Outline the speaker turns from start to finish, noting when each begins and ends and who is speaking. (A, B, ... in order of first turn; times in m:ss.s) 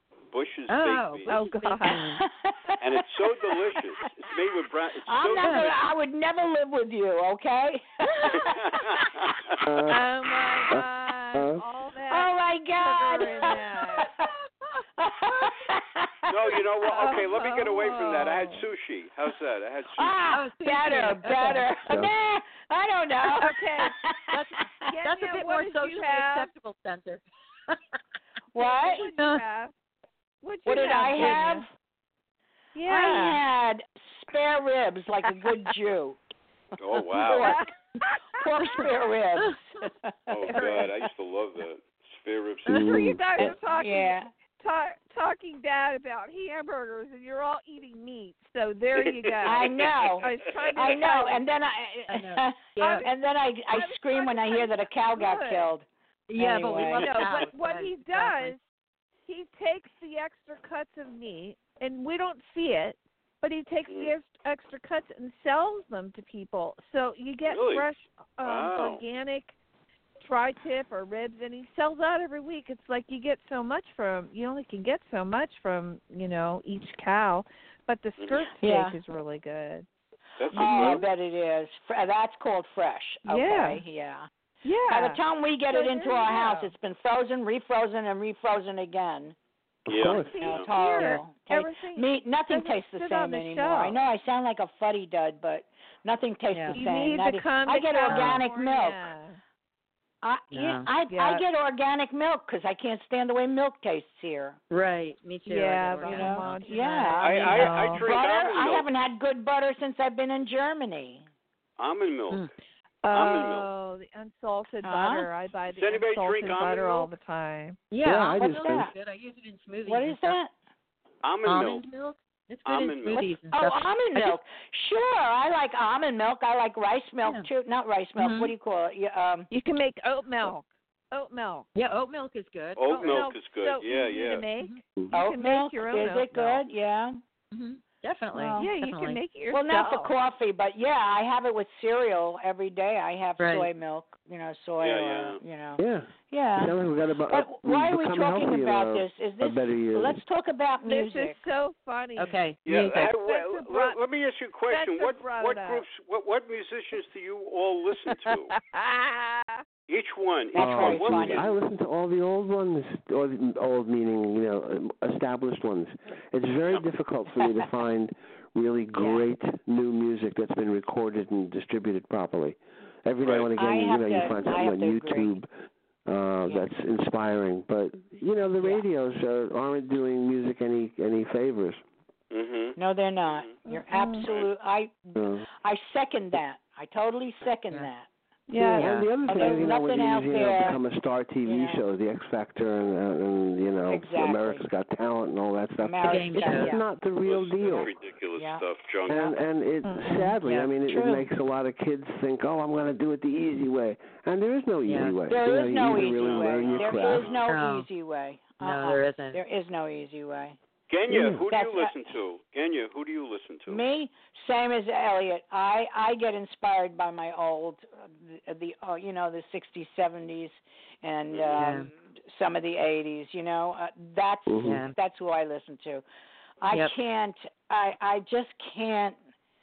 0:00.3-0:01.4 A
0:00.7-0:02.2 B
0:01.3-0:02.2 C
0:01.9-0:03.8 D
0:02.8-0:05.8 A
0:05.0-0:09.3 D
0:05.4-0:05.7 B
0:08.4-0:09.6 A
0:09.6-0:10.0 E
0:09.9-0:14.2 C
0:10.7-0:11.6 E
0:12.1-0:14.3 D
0:15.0-0:17.2 D
0:16.3-0:20.3 A
0:16.9-0:18.6 C
0:19.9-0:24.6 D
0:20.3-0:21.7 B
0:21.8-0:22.1 E
0:23.4-0:24.0 C
0:24.3-0:27.8 B
0:24.8-0:26.5 C
0:28.5-0:29.1 D
0:28.6-0:29.7 C
0:29.2-0:29.4 B
0:30.4-0:31.7 C
0:30.6-0:31.7 D
0:32.7-0:33.4 C
0:32.8-0:36.2 D
0:36.8-0:37.6 A
0:37.1-0:37.6 D
0:37.4-0:38.4 C
0:38.3-0:40.5 D
0:40.3-0:43.0 A
0:40.5-0:40.9 C
0:42.7-0:43.5 E
0:42.7-0:43.0 B
0:42.7-0:51.4 C
0:43.6-0:44.3 D
0:49.0-0:50.3 A
0:49.4-0:57.2 D
0:52.1-0:53.0 B
0:52.8-0:53.1 C
0:53.7-0:55.7 C
0:56.3-0:58.5 B
0:56.9-0:58.6 C
0:59.3-1:09.5 C
1:07.5-1:07.8 A
1:08.4-1:09.0 A
1:10.2-1:19.9 C
1:18.2-1:18.4 A
1:18.6-1:19.0 D
1:20.4-1:21.0 A
1:20.5-1:21.0 C
1:20.5-1:24.3 D
1:23.2-1:23.8 C
1:24.6-1:26.7 C
1:24.9-1:29.4 D
1:29.8-1:30.4 E
1:29.9-1:30.7 A
1:30.1-1:34.0 C
1:30.4-1:39.0 D
1:36.5-1:36.8 B
1:36.7-1:39.4 C
1:38.1-1:38.4 B
1:40.2-1:44.6 D
1:40.5-1:40.9 B
1:41.1-1:41.4 C
1:44.7-1:46.6 B
1:45.5-1:48.0 C
1:46.0-1:51.2 D
1:47.2-1:48.9 A
1:47.3-1:47.9 B
1:51.8-1:52.5 A
1:53.0-1:57.8 C
1:53.1-1:53.7 A
1:54.8-1:55.3 D
1:55.7-1:57.1 A
1:57.9-2:00.4 B
1:58.0-1:58.9 E
1:58.4-1:58.9 D
1:59.8-2:00.5 D
2:01.2-2:01.8 A
2:01.4-2:04.4 B
2:02.6-2:03.4 A
2:03.5-2:09.5 D
2:07.2-2:07.5 B
2:08.2-2:08.5 B
2:09.5-2:11.7 C
2:11.7-2:13.3 B
2:12.8-2:14.5 A
2:13.0-2:16.3 C
2:15.1-2:17.2 D
2:16.3-2:16.6 B
2:17.5-2:19.2 B
2:18.3-2:18.7 D
2:18.6-2:20.1 C
2:19.5-2:26.7 D
2:23.4-2:23.7 B
2:24.8-2:25.4 A
2:25.8-2:30.2 E
2:27.3-2:31.4 D
2:30.8-2:32.4 C
2:32.2-2:33.1 B
2:32.6-2:38.5 A
2:32.9-2:34.0 C
2:34.7-2:35.8 C
2:38.1-2:39.6 C
2:39.9-2:41.5 A
2:40.5-2:41.5 D
2:40.6-2:55.5 E
2:49.0-2:49.2 D
2:53.2-2:53.5 A
2:53.5-2:55.3 D
2:56.0-3:01.8 E
3:02.3-3:02.8 A
3:02.8-3:08.1 D
3:03.3-3:03.6 A
3:03.6-3:04.3 C
3:05.2-3:05.4 E
3:08.5-3:08.9 C
3:08.6-3:18.0 E
3:08.8-3:09.7 B
3:09.2-3:10.8 D
3:11.4-3:11.8 D
3:13.9-3:14.6 D
3:15.8-3:16.8 D
3:16.0-3:16.8 B
3:17.2-3:19.3 A
3:18.4-3:18.6 D
3:19.1-3:27.4 E
3:19.8-3:20.2 C
3:20.1-3:20.7 B
3:20.9-3:21.2 D
3:24.8-3:25.2 B
3:25.3-3:30.6 D
3:26.0-3:27.4 A
3:27.4-3:27.9 B
3:28.6-3:29.4 B
3:30.9-3:33.8 A
3:31.1-3:31.4 E
3:31.5-3:32.1 D
3:33.7-3:46.0 D
3:41.3-3:41.7 A
3:41.5-3:41.9 B
3:44.5-3:44.8 E
3:44.6-3:44.9 B
3:46.6-3:49.2 D